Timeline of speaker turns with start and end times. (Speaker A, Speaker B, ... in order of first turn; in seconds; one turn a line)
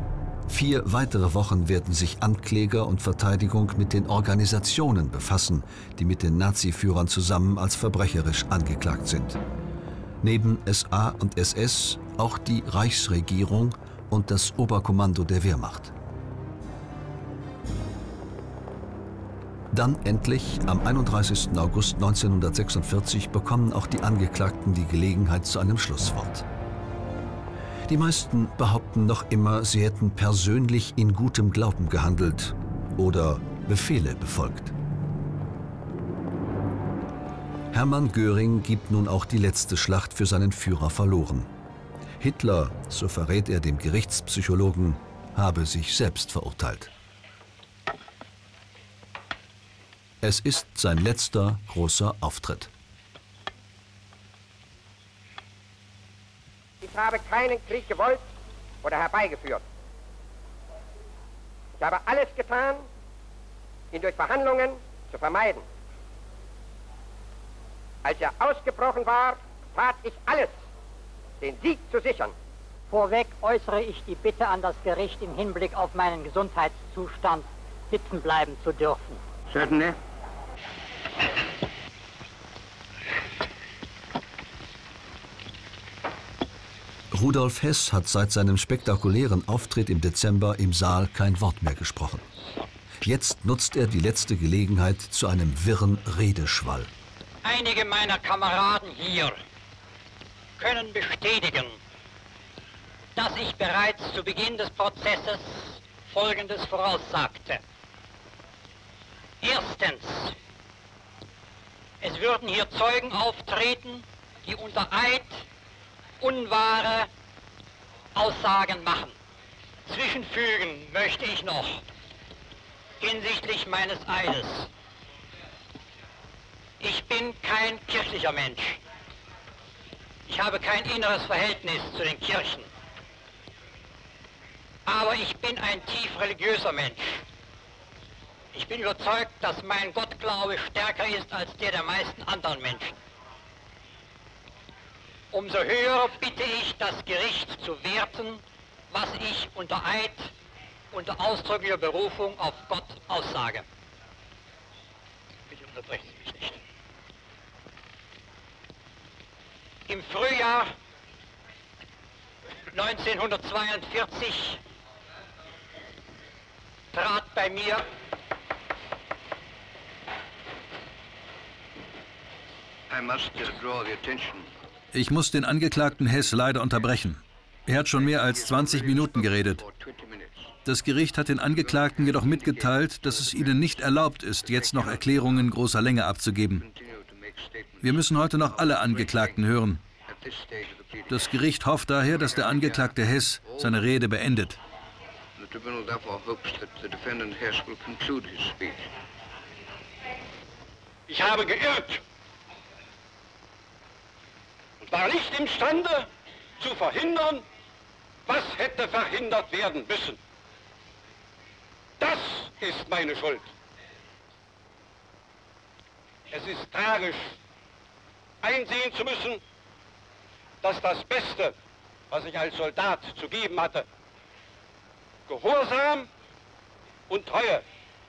Speaker A: 0.5-9.4
Speaker A: 10.2-15.9
Speaker A: 19.7-26.4
Speaker A: 27.9-34.7
Speaker A: 37.7-41.5
Speaker A: 42.2-46.9
Speaker A: 50.2-52.7
Speaker B: 56.8-58.2
Speaker B: 58.8-59.6
Speaker B: 61.8-62.9
Speaker B: 63.9-65.6
Speaker B: 68.0-70.6
Speaker B: 71.4-72.3
Speaker C: 72.9-79.2
Speaker A: 87.1-92.3
Speaker A: 93.0-96.9
Speaker C: 97.4-99.4
Speaker C: 100.6-101.8
Speaker C: 103.2-107.6
Speaker C: 109.4-110.3
Speaker C: 112.0-115.4
Speaker C: 116.2-117.1
Speaker C: 118.1-119.1
Speaker C: 119.9-121.8
Speaker C: 123.0-124.7
Speaker C: 126.8-128.8
Speaker C: 130.3-132.7
Speaker C: 134.9-137.2
Speaker C: 138.5-142.9
Speaker C: 145.3-150.3
Speaker C: 150.9-153.6
Speaker C: 155.5-156.6
Speaker C: 159.9-160.7
Speaker C: 162.7-164.6
Speaker C: 166.9-167.8
Speaker D: 172.9-174.5
Speaker E: 174.9-179.6
Speaker D: 177.9-180.5
Speaker E: 180.6-186.7
Speaker D: 181.5-185.6
Speaker D: 186.5-189.5
Speaker E: 187.8-189.8
Speaker D: 190.1-191.4
Speaker E: 191.1-194.6
Speaker D: 192.2-193.8
Speaker D: 195.4-198.9
Speaker D: 201.1-202.0
Speaker D: 204.8-206.1
Speaker D: 206.6-207.4
Speaker D: 208.3-210.2
Speaker D: 212.0-213.5
Speaker D: 216.3-217.3
Speaker D: 218.4-219.4
Speaker D: 220.6-221.6
Speaker D: 222.1-223.9
Speaker D: 225.3-226.1
Speaker D: 227.1-227.6